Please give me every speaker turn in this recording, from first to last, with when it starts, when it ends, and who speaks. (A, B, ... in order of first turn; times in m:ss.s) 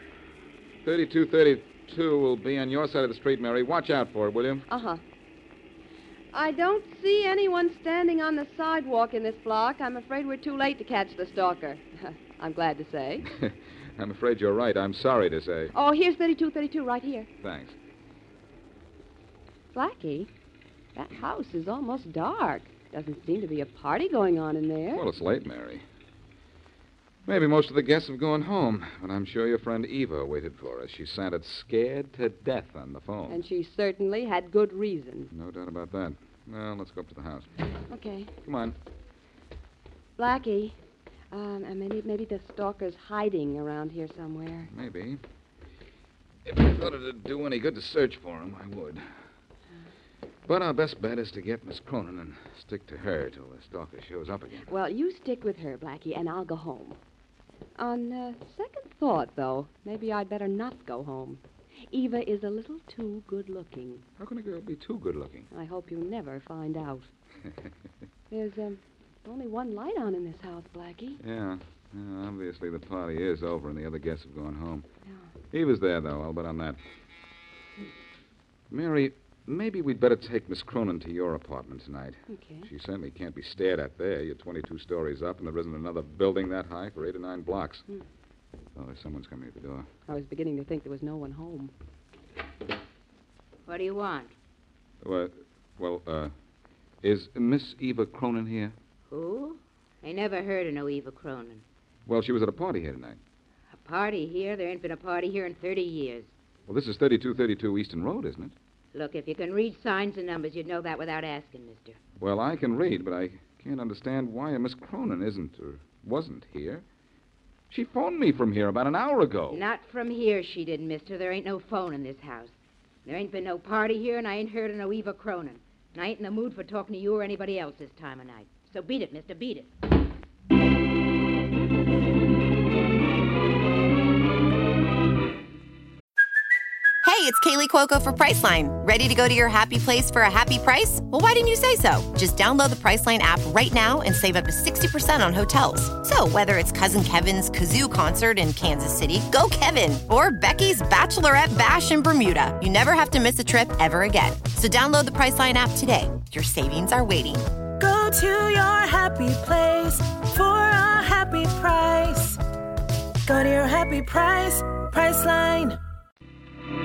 0:00.8-0:04.6 A
0:04.7-0:05.0 B
0:06.3-0:13.3 B
0:13.3-0:15.7 A
0:15.7-0:17.3 B
0:17.4-0:17.8 A
0:19.7-0:20.3 B
0:21.0-0:25.0 B
0:24.9-0:25.8 A
0:27.3-0:33.4 A
0:33.3-0:35.3 B
0:35.3-0:37.5 A
0:37.9-0:38.3 B
0:38.4-0:38.8 A
0:40.2-0:40.8 B
0:41.3-0:44.7 B
0:44.7-0:45.2 A
0:46.4-0:49.0 A
0:50.5-0:54.7 A
0:54.7-0:57.0 B
0:57.8-1:04.0 B
1:04.2-1:05.5 A
1:05.5-1:07.1 B
1:08.3-1:11.2 B
1:11.2-1:14.8 A
1:15.5-1:16.8 A
1:18.7-1:27.8 A
1:22.3-1:22.7 B
1:28.8-1:29.9 A
1:30.1-1:31.7 B
1:33.7-1:34.3 C
1:35.0-1:36.3 A
1:37.0-1:38.8 A
1:39.1-1:41.6 C
1:42.1-1:43.2 A
1:43.8-1:46.3 C
1:46.7-1:48.5 A
1:48.9-1:52.0 C
1:52.2-1:56.8 A
1:57.7-1:59.6 A
1:59.5-2:02.5 C
2:03.1-2:09.7 C
2:17.0-2:37.4 D
2:37.8-2:42.4 E
2:43.3-2:45.8 E